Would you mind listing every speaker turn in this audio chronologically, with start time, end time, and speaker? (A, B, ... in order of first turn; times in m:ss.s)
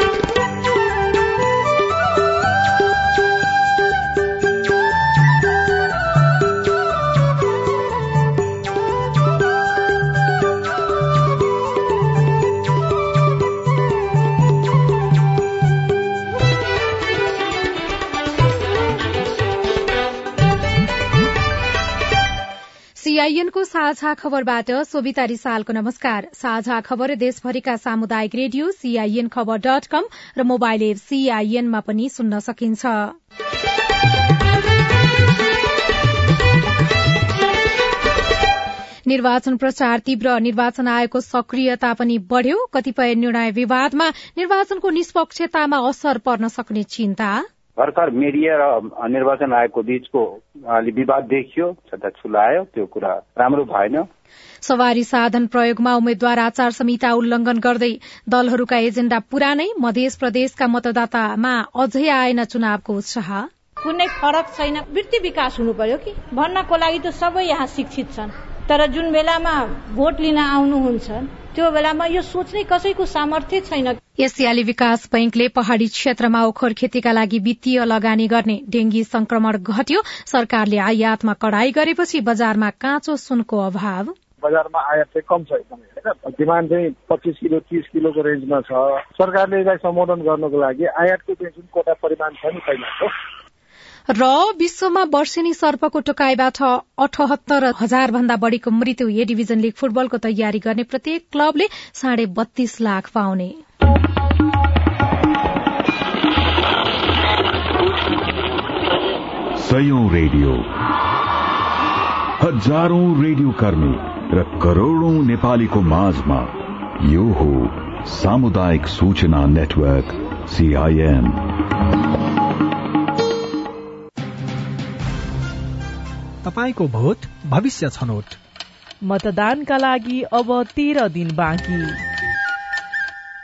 0:23.0-0:33.2 A
0:39.1-0:47.4 A
0:47.8-0:54.1 B
0:54.6-1:03.5 A
1:03.8-1:14.0 C
1:14.2-1:24.1 A
1:24.4-1:33.1 D
1:34.1-1:43.6 A
1:49.6-1:50.7 E
1:52.4-2:01.4 E
2:06.4-2:08.4 F
2:09.0-2:12.0 G